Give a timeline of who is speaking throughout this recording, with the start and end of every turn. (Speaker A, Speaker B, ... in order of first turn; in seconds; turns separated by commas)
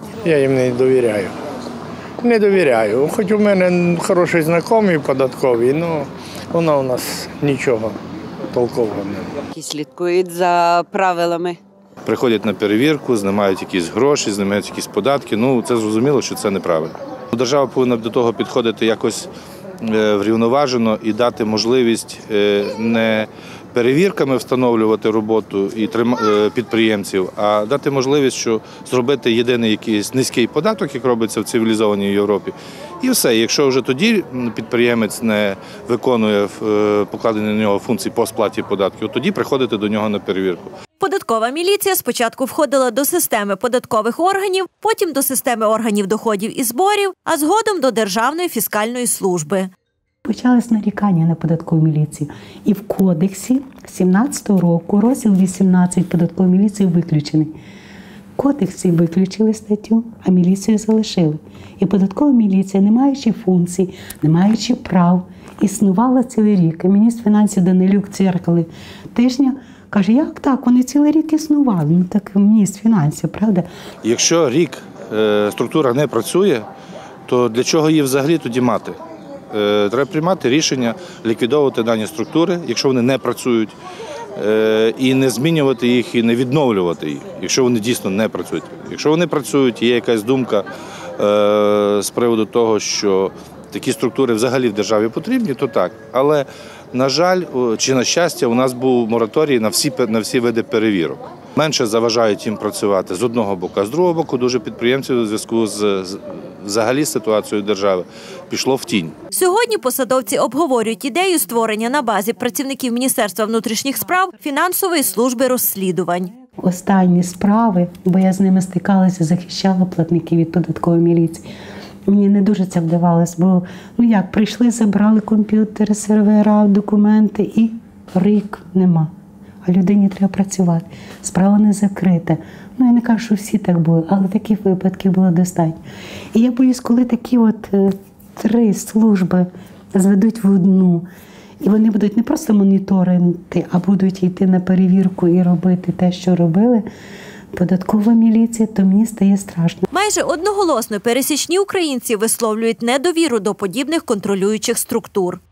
Speaker A: 0.2-1.3, Speaker A: 2.2-8.0, Speaker A: 8.5-9.3, Speaker B: 9.5-11.6, Speaker C: 12.1-19.3, Speaker C: 19.8-40.7, Speaker D: 41.0-49.7, Speaker E: 50.2-57.5, Speaker E: 58.4-73.7, Speaker C: 74.0-76.7, Speaker C: 77.3-79.0, Speaker C: 79.5-83.8, Speaker C: 84.4-90.7, Speaker C: 91.2-109.2, Speaker D: 109.3-116.3, Speaker E: 116.6-121.5, Speaker E: 122.1-129.1, Speaker E: 129.7-135.8, Speaker E: 136.3-141.1, Speaker E: 141.6-146.9, Speaker E: 147.5-149.8, Speaker D: 149.9-155.4